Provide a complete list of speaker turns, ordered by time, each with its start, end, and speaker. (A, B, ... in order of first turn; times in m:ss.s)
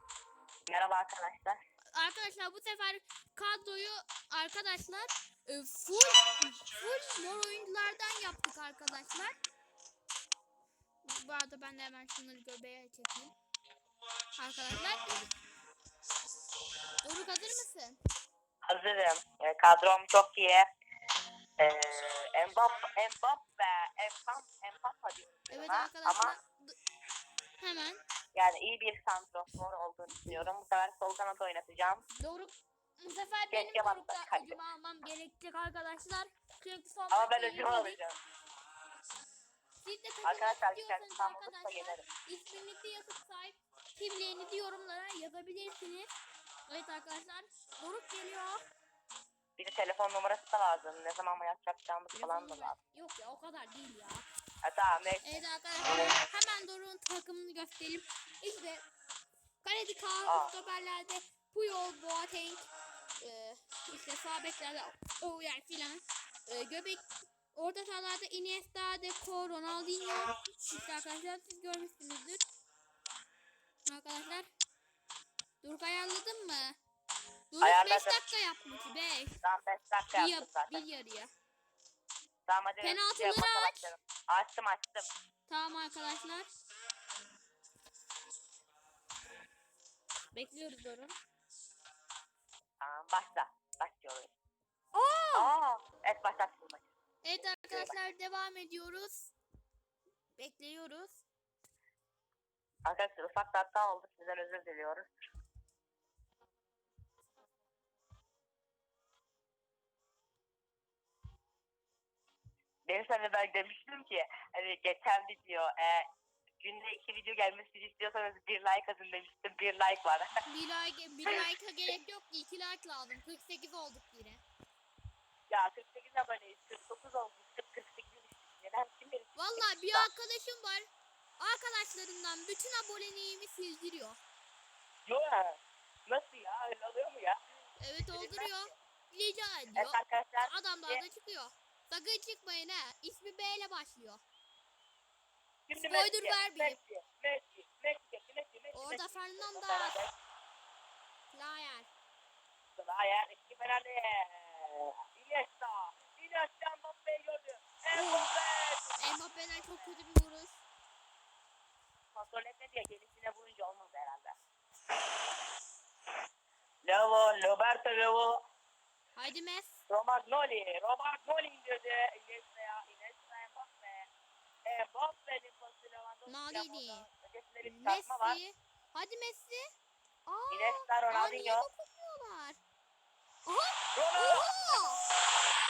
0:00.7-0:01.6 A
0:01.9-0:09.3 B
0:11.0-0:13.3 B
0:14.4-0:15.3 B
0:17.0-0:18.0 B
0:18.7-0:20.6 A
0:21.6-0:26.4 A
0:25.5-0:26.7 B
0:27.6-0:28.0 B
0:28.3-0:32.0 A
0:32.2-0:38.0 B
0:33.5-0:34.6 A
0:37.1-0:38.2 A
0:39.8-0:46.1 B
0:40.2-0:42.0 A
0:46.7-0:48.6 B
0:49.6-0:52.8 A
0:52.1-0:54.2 B
0:54.6-0:55.4 A
0:55.2-0:58.8 B
0:59.6-1:02.7 B
1:00.3-1:00.5 A
1:03.2-1:07.0 B
1:07.5-1:12.4 B
1:13.8-1:14.5 B
1:15.6-1:16.8 B
1:17.5-1:19.4 B
1:17.6-1:18.2 A
1:19.4-1:20.8 A
1:20.1-1:21.3 B
1:22.5-1:25.0 A
1:22.8-1:23.9 B
1:25.5-1:26.5 B
1:30.3-1:31.1 B
1:32.8-1:34.3 A
1:34.9-1:35.5 B
1:35.3-1:36.8 A
1:37.2-1:39.3 B
1:37.7-1:37.9 A
1:40.4-1:41.2 B
1:42.8-1:45.1 A
1:52.8-1:56.1 A
1:56.6-2:00.3 A
2:00.4-2:04.4 B
2:05.5-2:10.1 A
2:09.3-2:14.2 B
2:15.0-2:17.4 A
2:17.8-2:24.2 B
2:18.1-2:18.6 A
2:19.8-2:21.0 A
2:25.7-2:30.1 A
2:25.8-2:26.8 B
2:28.7-2:29.9 B
2:31.3-2:31.9 B
2:32.8-2:40.0 A
2:37.9-2:38.3 B
2:39.0-2:40.6 B
2:42.1-2:44.3 A
2:46.8-2:48.4 A
2:49.2-2:49.8 B
2:49.9-2:54.1 A
2:54.6-2:58.4 A
2:56.2-2:57.0 B
2:57.6-2:59.7 B
3:00.2-3:02.6 B
3:00.5-3:01.6 A
3:03.4-3:05.0 B
3:03.9-3:04.5 A